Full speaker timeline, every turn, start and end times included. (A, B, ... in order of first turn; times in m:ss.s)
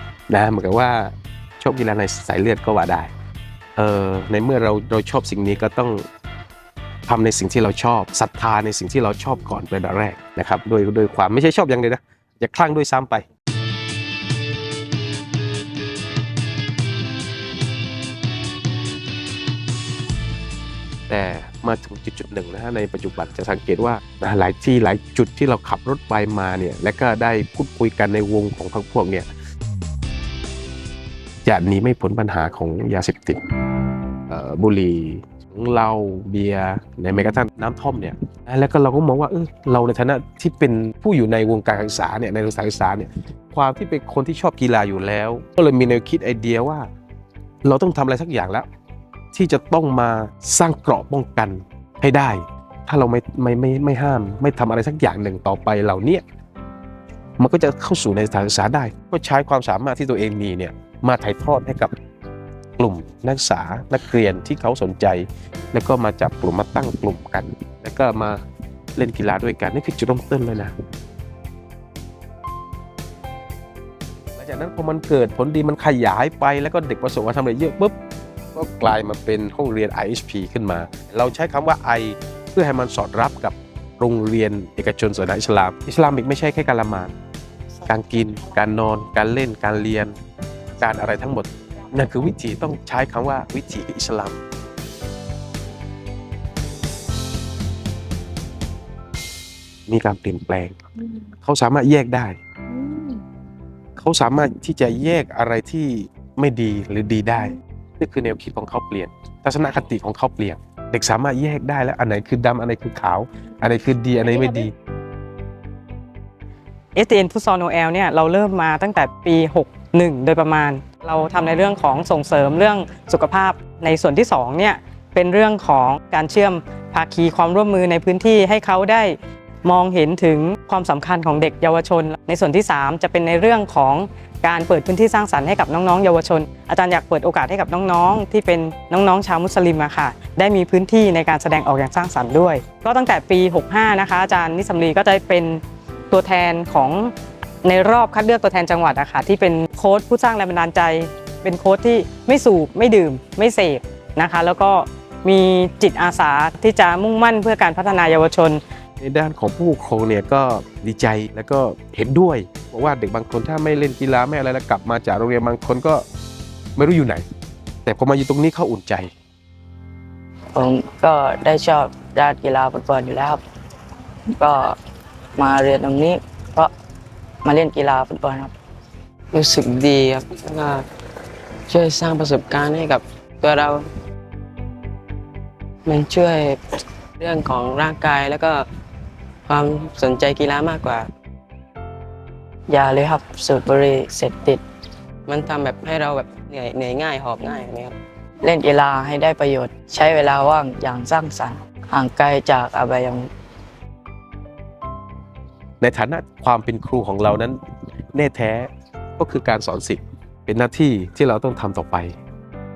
0:00.3-0:03.1 A
0:03.8-0:06.0 A
0:07.1-0:13.2 A
0:21.1-0:29.3 A
0:31.4-0:33.4 A
0:34.3-0:46.9 A
0:47.6-0:48.7 A
0:49.3-0:56.2 A
0:57.4-1:01.9 A
1:02.8-1:08.4 A
1:09.0-1:10.7 A
1:14.4-1:18.0 A
1:18.5-1:27.1 A
1:27.8-1:30.2 A
1:30.8-1:34.4 A
1:39.9-1:42.4 A
1:44.0-1:54.7 A
1:56.9-2:38.6 B
2:39.0-2:46.0 A
2:46.8-2:47.2 A
2:47.8-2:49.1 A
2:50.5-2:53.4 C
2:54.3-2:54.8 C
2:55.4-2:56.7 C
2:57.4-2:58.5 C
2:59.3-3:00.8 D
3:01.7-3:03.9 D
3:05.8-3:08.6 D
3:09.5-3:11.1 D
3:12.7-3:14.6 C
3:15.3-3:17.9 D
3:18.4-3:23.3 C
3:25.8-3:27.6 A
3:28.1-3:32.1 A